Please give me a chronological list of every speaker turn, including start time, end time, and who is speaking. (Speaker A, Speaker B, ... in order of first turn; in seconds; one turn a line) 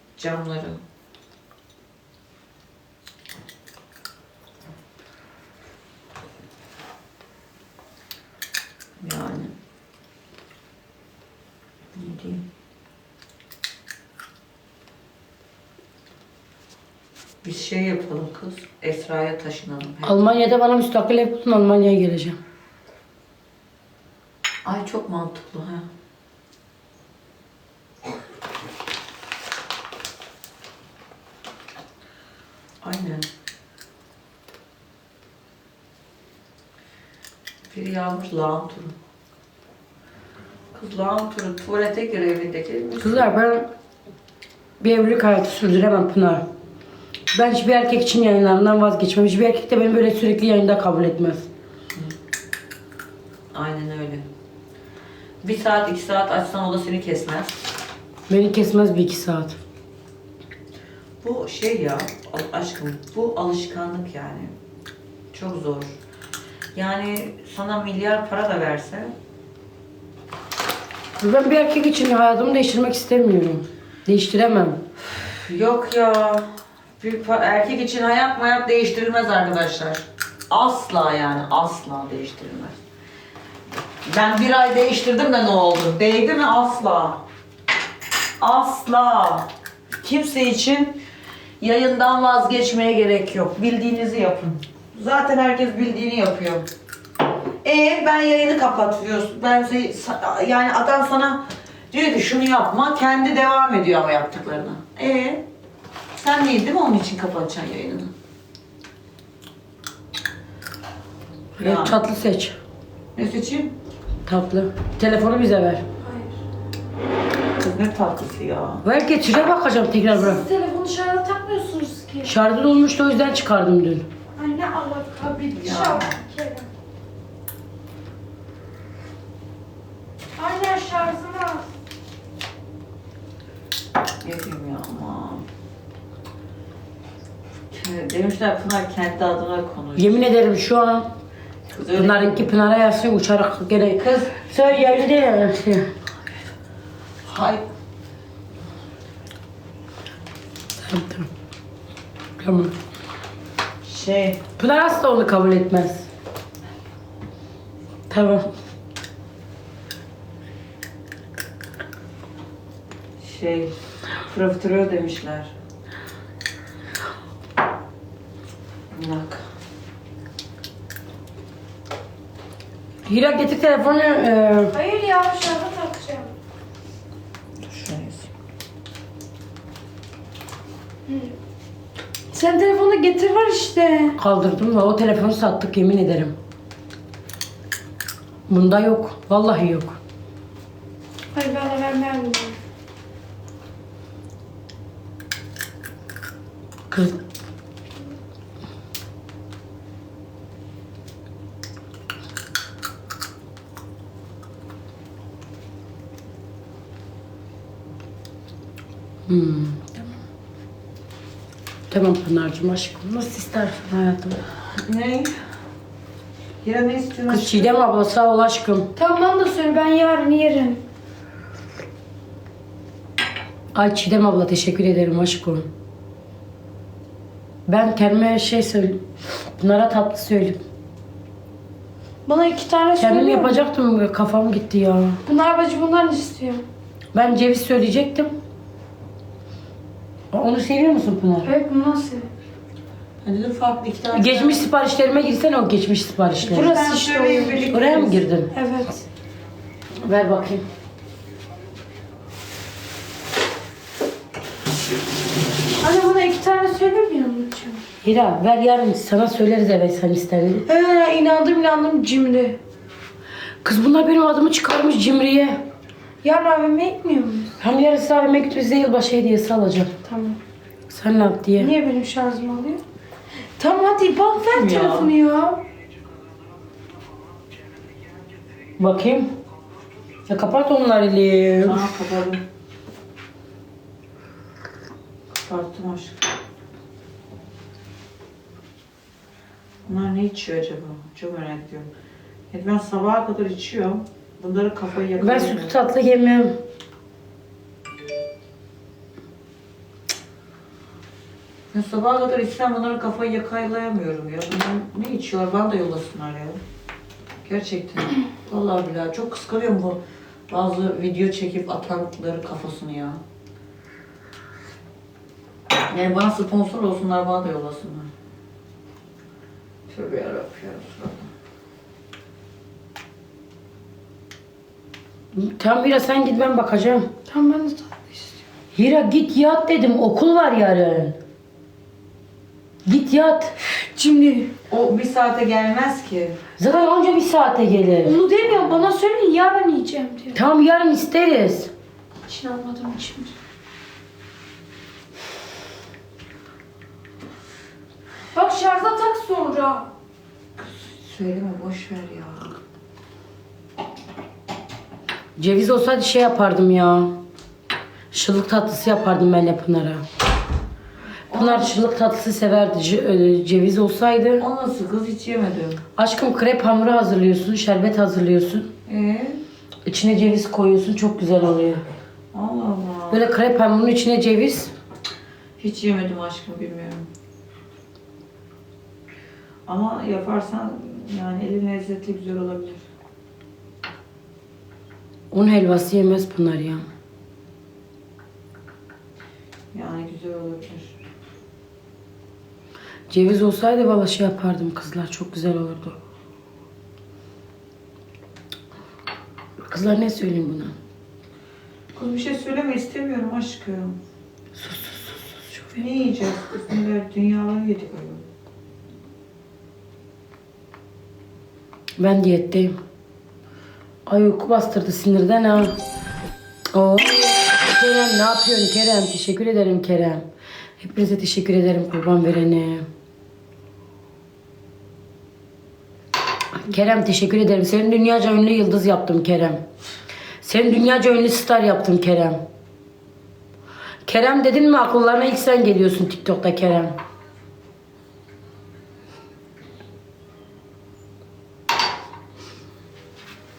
Speaker A: 0.2-0.8
Speaker A: 9.0-9.5
Speaker A: 11.9-12.4
Speaker A: 17.4-20.4
Speaker B: 20.1-22.4
Speaker A: 24.6-25.9
Speaker A: 32.8-33.3
Speaker A: 37.7-39.0
Speaker A: 40.7-43.3
Speaker B: 43.0-43.7
Speaker B: 44.8-46.5
Speaker B: 47.3-51.5
Speaker A: 53.5-54.3
Speaker A: 55.4-57.6
Speaker B: 58.3-59.6
Speaker A: 61.2-64.5
Speaker A: 65.3-66.0
Speaker A: 66.8-69.1
Speaker B: 71.2-74.8
Speaker A: 75.2-76.5
Speaker A: 77.0-82.8
Speaker A: 84.0-87.2
Speaker A: 88.4-91.0
Speaker A: 91.6-96.7
Speaker A: 97.6-105.4
Speaker A: 106.2-108.1
Speaker A: 111.6-112.0
Speaker B: 111.6-112.6
Speaker A: 113.2-113.7
Speaker B: 114.3-115.8
Speaker C: 116.0-116.3
Speaker A: 117.6-118.8
Speaker B: 118.8-120.4
Speaker C: 120.1-122.3
Speaker B: 122.2-124.1
Speaker C: 124.4-126.7
Speaker A: 125.5-126.2
Speaker C: 130.4-131.7
Speaker A: 134.2-135.4
Speaker A: 137.7-140.2
Speaker B: 140.0-141.1
Speaker A: 141.7-142.5
Speaker B: 141.9-145.9
Speaker A: 144.0-145.2
Speaker A: 147.3-147.7
Speaker B: 150.8-151.3
Speaker B: 152.4-152.7
Speaker A: 153.8-154.4
Speaker B: 154.6-156.1
Speaker B: 158.1-158.5
Speaker A: 163.2-163.8
Speaker A: 164.3-165.5
Speaker A: 168.9-169.4
Speaker B: 173.1-174.7
Speaker C: 174.7-176.3
Speaker A: 177.6-178.3
Speaker C: 181.1-181.3
Speaker C: 182.3-184.2
Speaker B: 184.2-186.4
Speaker B: 188.5-190.0
Speaker C: 191.3-192.6
Speaker B: 196.9-197.2
Speaker B: 209.3-210.2
Speaker B: 211.9-214.4
Speaker A: 214.8-215.3
Speaker A: 216.6-217.8
Speaker B: 217.3-218.9
Speaker C: 219.0-220.8
Speaker B: 223.7-225.7
Speaker B: 227.7-229.0
Speaker B: 229.6-230.6
Speaker C: 232.3-233.6
Speaker B: 233.0-235.2
Speaker C: 235.3-236.6
Speaker B: 237.1-238.3
Speaker B: 240.3-241.5
Speaker C: 241.4-242.3
Speaker A: 243.2-244.6
Speaker B: 244.1-246.8
Speaker A: 246.4-248.3
Speaker C: 246.5-247.7
Speaker B: 247.7-248.5
Speaker C: 248.5-249.0
Speaker B: 250.0-250.7
Speaker C: 255.8-257.8
Speaker B: 258.0-260.7
Speaker C: 260.7-262.6
Speaker B: 263.6-265.6
Speaker C: 266.2-267.6
Speaker B: 267.6-269.9
Speaker C: 270.1-270.4
Speaker B: 270.9-271.7
Speaker C: 271.6-272.8
Speaker C: 273.6-275.6
Speaker A: 274.4-275.1
Speaker B: 278.8-279.3
Speaker B: 280.3-281.9
Speaker A: 281.6-282.4
Speaker A: 285.4-286.2
Speaker A: 289.9-291.9
Speaker A: 292.5-295.8
Speaker B: 295.2-296.6
Speaker A: 301.7-306.6
Speaker A: 307.4-313.2
Speaker A: 315.9-318.1
Speaker A: 319.9-321.3
Speaker B: 325.3-327.1
Speaker C: 327.3-328.4
Speaker B: 328.8-331.2
Speaker B: 332.9-333.6
Speaker C: 333.7-334.5
Speaker A: 334.7-336.4
Speaker B: 336.6-338.1
Speaker C: 338.0-340.4
Speaker B: 340.4-341.7
Speaker C: 342.3-343.3
Speaker C: 348.3-349.9
Speaker A: 350.6-352.6
Speaker B: 355.4-357.2
Speaker B: 358.1-360.0
Speaker A: 361.3-361.8
Speaker B: 361.3-364.4
Speaker A: 364.4-365.8
Speaker B: 366.0-368.7
Speaker A: 368.9-369.4
Speaker B: 369.9-371.8
Speaker A: 372.3-373.3
Speaker B: 373.1-374.7
Speaker A: 375.6-377.1
Speaker A: 379.7-382.9
Speaker B: 385.3-386.9
Speaker A: 389.7-390.9
Speaker B: 393.1-396.0
Speaker B: 399.6-400.8
Speaker A: 401.9-404.0
Speaker B: 404.6-405.8
Speaker A: 405.7-408.2
Speaker B: 412.0-412.8
Speaker B: 414.1-415.8
Speaker B: 416.7-420.3
Speaker B: 420.8-422.9
Speaker B: 426.6-429.6
Speaker B: 430.4-432.4
Speaker B: 434.1-437.0